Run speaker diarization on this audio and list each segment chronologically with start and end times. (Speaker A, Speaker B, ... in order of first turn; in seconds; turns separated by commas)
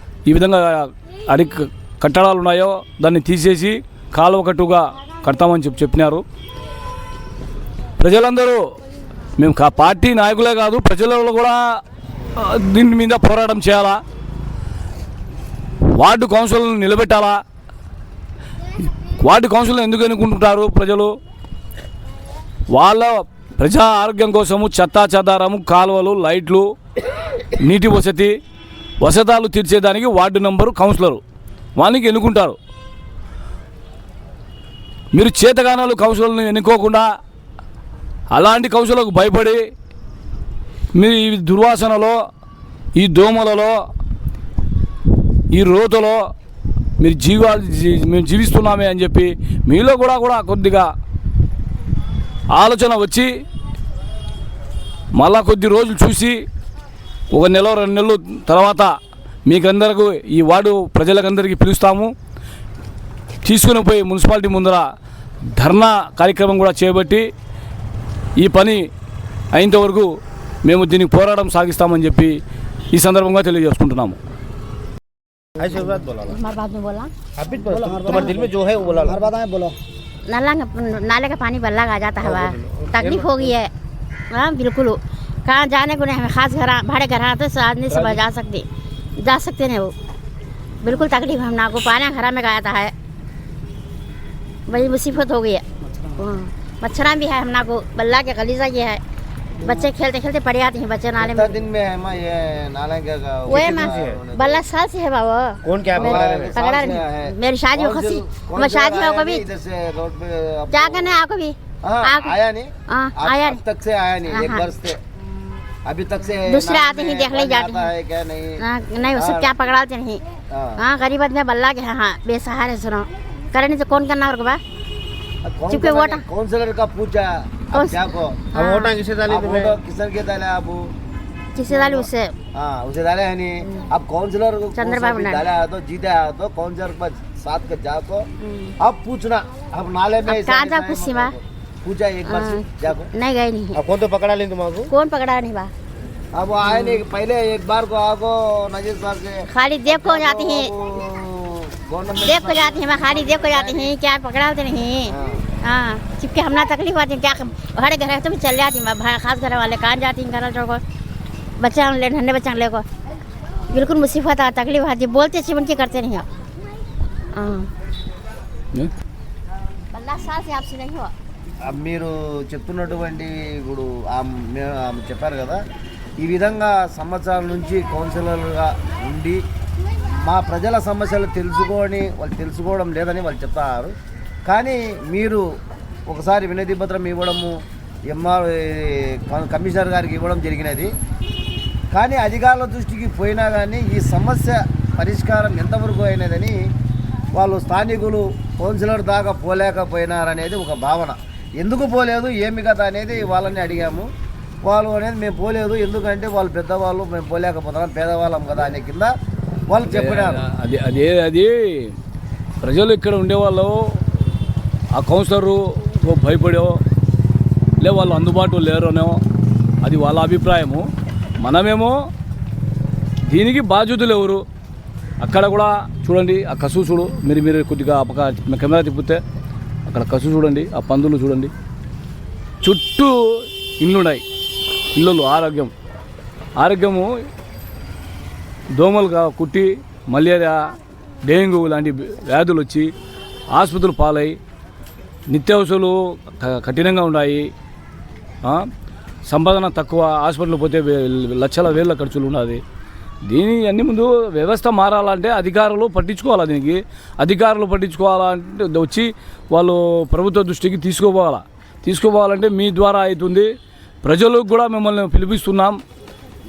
Speaker A: 0.3-6.2, Speaker A: 8.0-8.6, Speaker A: 9.4-11.6, Speaker A: 12.4-14.0, Speaker A: 15.9-17.4, Speaker A: 19.2-21.1, Speaker A: 22.7-26.7, Speaker A: 27.6-28.3, Speaker A: 29.0-31.2, Speaker A: 31.8-32.6, Speaker A: 35.1-37.1, Speaker A: 38.3-39.6, Speaker A: 41.0-42.2, Speaker A: 43.0-43.7, Speaker A: 45.5-46.2, Speaker A: 47.0-50.9, Speaker A: 52.5-53.3, Speaker A: 55.1-56.4, Speaker A: 57.3-58.9, Speaker A: 59.5-62.1, Speaker A: 63.4-64.9, Speaker A: 65.6-67.3, Speaker A: 68.4-68.8, Speaker A: 69.5-70.1, Speaker A: 70.6-72.4, Speaker A: 72.9-74.2, Speaker B: 75.6-76.4, Speaker C: 76.2-77.1, Speaker B: 77.4-79.8, Speaker C: 80.3-83.7, Speaker B: 82.2-83.5, Speaker C: 84.3-88.7, Speaker B: 87.9-88.2, Speaker C: 89.2-89.9, Speaker C: 90.8-92.9, Speaker C: 94.7-99.0, Speaker C: 99.6-101.6, Speaker D: 99.6-99.9, Speaker D: 101.2-104.7, Speaker C: 103.5-109.5, Speaker B: 103.5-104.2, Speaker B: 105.7-106.5, Speaker D: 105.9-111.2, Speaker C: 110.7-112.4, Speaker D: 111.8-115.0, Speaker C: 112.9-113.6, Speaker C: 114.3-114.7, Speaker D: 115.9-118.6, Speaker C: 116.5-117.9, Speaker C: 118.6-120.2, Speaker D: 119.2-119.5, Speaker D: 120.5-120.8, Speaker C: 120.8-124.6, Speaker D: 125.5-128.5, Speaker C: 125.7-126.2, Speaker C: 127.7-129.0, Speaker B: 128.5-129.8, Speaker D: 129.2-130.8, Speaker C: 131.6-132.3, Speaker D: 131.7-138.3, Speaker C: 133.6-133.9, Speaker C: 134.8-135.4, Speaker C: 138.4-138.8, Speaker D: 138.8-143.1, Speaker C: 140.3-141.3, Speaker C: 142.2-143.8, Speaker B: 143.8-144.9, Speaker C: 144.9-145.7, Speaker D: 146.3-153.9, Speaker C: 146.6-147.0, Speaker C: 149.5-150.7, Speaker C: 152.2-160.8, Speaker D: 155.1-155.4, Speaker C: 161.6-162.8, Speaker C: 163.7-166.3, Speaker C: 167.3-167.7, Speaker C: 169.9-171.1, Speaker D: 171.7-175.6, Speaker D: 176.2-179.4, Speaker D: 180.1-183.9, Speaker D: 184.5-185.4, Speaker D: 186.1-190.9, Speaker D: 191.9-196.6, Speaker D: 197.3-204.1, Speaker D: 204.6-209.1, Speaker D: 209.7-210.4, Speaker A: 209.8-211.9, Speaker A: 212.6-213.8, Speaker A: 214.9-216.8, Speaker A: 217.8-219.2, Speaker A: 219.8-220.9, Speaker A: 221.4-222.0, Speaker A: 223.3-224.4, Speaker A: 225.2-229.2, Speaker A: 229.9-231.5, Speaker A: 232.6-234.2, Speaker A: 234.9-235.7, Speaker A: 236.6-237.1, Speaker A: 238.8-240.7, Speaker A: 241.2-242.9, Speaker A: 243.5-244.4, Speaker A: 245.3-247.5, Speaker A: 249.3-252.6, Speaker A: 253.3-263.5, Speaker A: 264.0-265.8